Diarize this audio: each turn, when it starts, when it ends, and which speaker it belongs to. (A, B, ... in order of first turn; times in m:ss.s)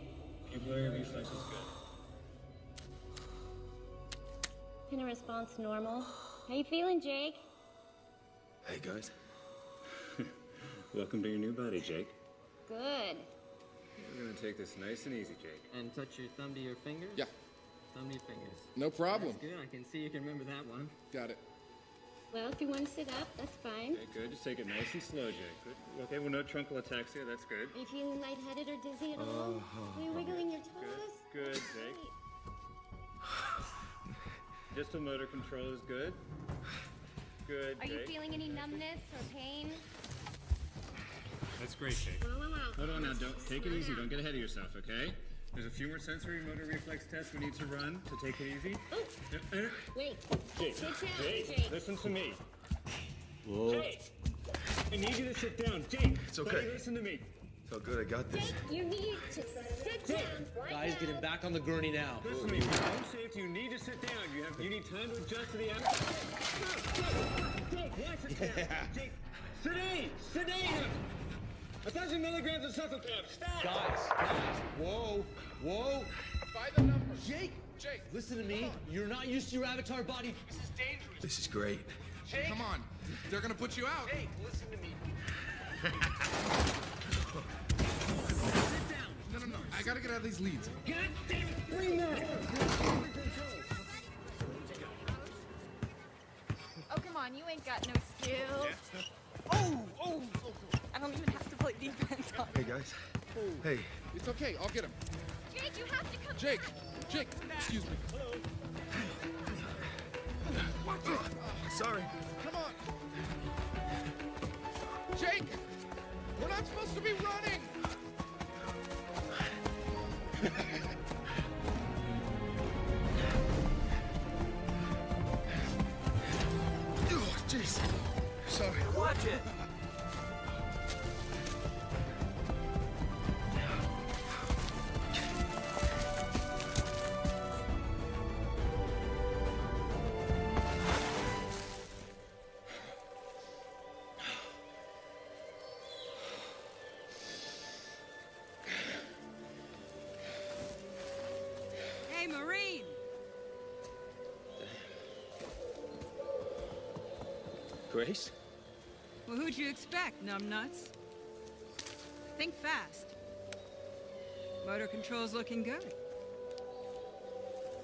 0:00.5-0:01.7 A
0:04.9-0:07.4 B
0:08.6-0:09.1 C
0:10.9-0:12.1 A
0:12.6-0:13.3 B
0:14.0-0:15.7 A
0:15.7-0:17.2 D
0:17.9-0:20.9 D
0:18.8-0:19.4 E
0:21.1-0:21.4 E
0:22.3-0:24.0 B
0:23.9-0:27.8 A
0:27.7-0:32.1 B
0:29.2-0:30.5 C
0:30.6-0:32.0 A
0:34.7-0:36.2 A
0:37.4-0:39.0 A
0:37.8-0:39.8 B
0:41.6-0:42.2 A
0:42.2-0:44.1 B
0:42.8-0:49.9 A
0:48.9-0:49.2 B
0:49.9-0:51.8 B
0:50.5-0:52.4 A
0:53.6-0:53.9 C
0:53.6-0:54.1 A
0:54.9-0:57.3 A
0:56.3-0:56.8 C
0:57.6-0:58.6 C
0:58.3-1:01.3 B
1:00.0-1:00.5 A
1:00.5-1:02.8 F
1:02.2-1:11.0 A
1:08.3-1:08.9 F
1:11.8-1:13.8 A
1:13.6-1:16.1 F
1:16.5-1:18.8 E
1:17.2-1:21.2 F
1:21.2-1:22.1 C
1:22.2-1:22.7 F
1:22.3-1:24.2 E
1:24.0-1:25.0 F
1:28.5-1:29.4 F
1:29.2-1:30.8 E
1:30.9-1:32.5 A
1:31.1-1:32.3 F
1:39.5-1:42.5 G
1:42.5-1:44.0 C
1:43.4-1:45.0 E
1:45.7-1:46.1 B
1:46.2-1:48.1 E
1:49.1-1:49.8 C
1:50.7-1:51.7 E
1:50.8-1:52.3 C
1:52.3-1:52.9 E
1:55.1-1:55.6 E
1:56.4-1:57.8 E
2:07.0-2:09.1 C
2:09.0-2:09.4 G
2:32.1-2:33.0 H
2:37.9-2:38.3 C
2:39.3-2:40.9 H
2:42.3-2:43.1 H
2:44.6-2:45.9 H